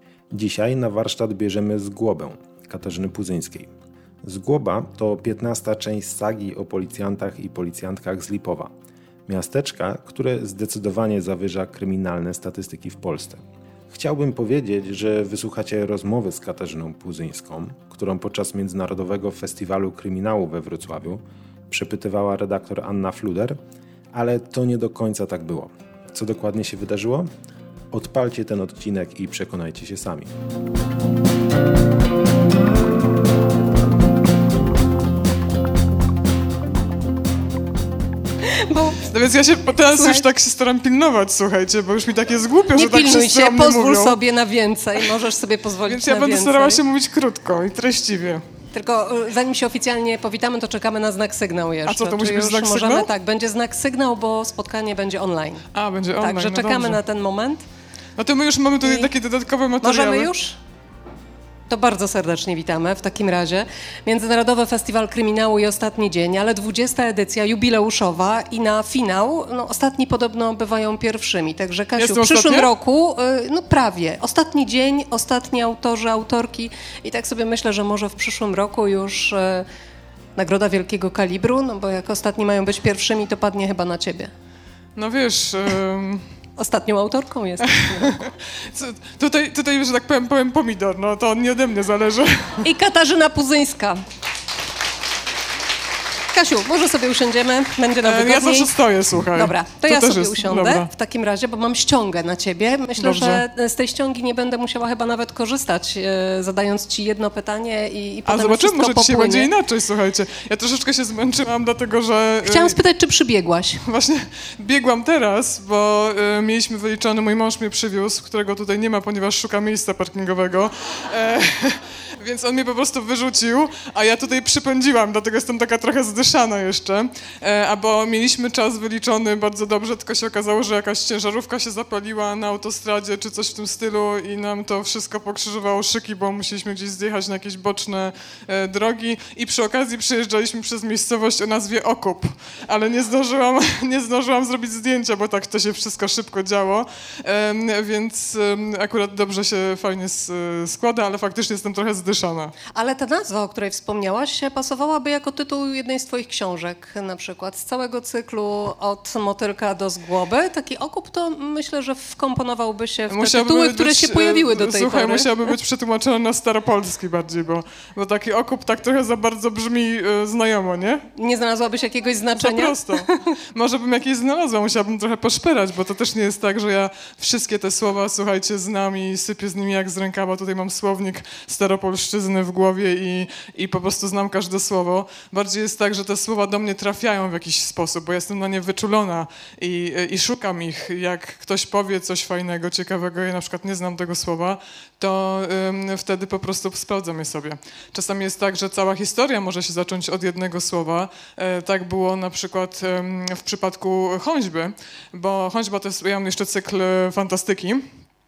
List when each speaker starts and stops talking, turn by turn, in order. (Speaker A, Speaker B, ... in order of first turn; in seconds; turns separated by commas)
Speaker A: 0.3-3.7, Speaker A: 4.2-8.7, Speaker A: 9.3-23.6, Speaker A: 24.1-27.3, Speaker A: 27.9-30.3, Speaker B: 38.5-39.0, Speaker C: 39.1-44.2, Speaker B: 39.9-40.3, Speaker B: 42.7-46.8, Speaker C: 45.8-48.4, Speaker B: 48.7-55.6, Speaker C: 51.9-53.1, Speaker C: 55.7-57.0, Speaker B: 56.2-57.6, Speaker C: 58.2-60.3, Speaker B: 58.8-59.1, Speaker B: 59.8-60.6, Speaker B: 61.7-79.7, Speaker C: 72.0-72.7, Speaker B: 80.4-84.3, Speaker C: 85.0-86.2, Speaker B: 86.6-88.2, Speaker C: 87.7-92.7, Speaker B: 92.6-94.0, Speaker B: 96.3-98.7, Speaker C: 98.0-100.9, Speaker B: 99.3-109.5, Speaker C: 103.0-103.4, Speaker C: 108.3-112.8, Speaker B: 112.4-113.8, Speaker C: 113.8-152.6, Speaker B: 152.7-165.3, Speaker C: 163.1-171.0, Speaker B: 171.2-173.3, Speaker C: 172.4-207.8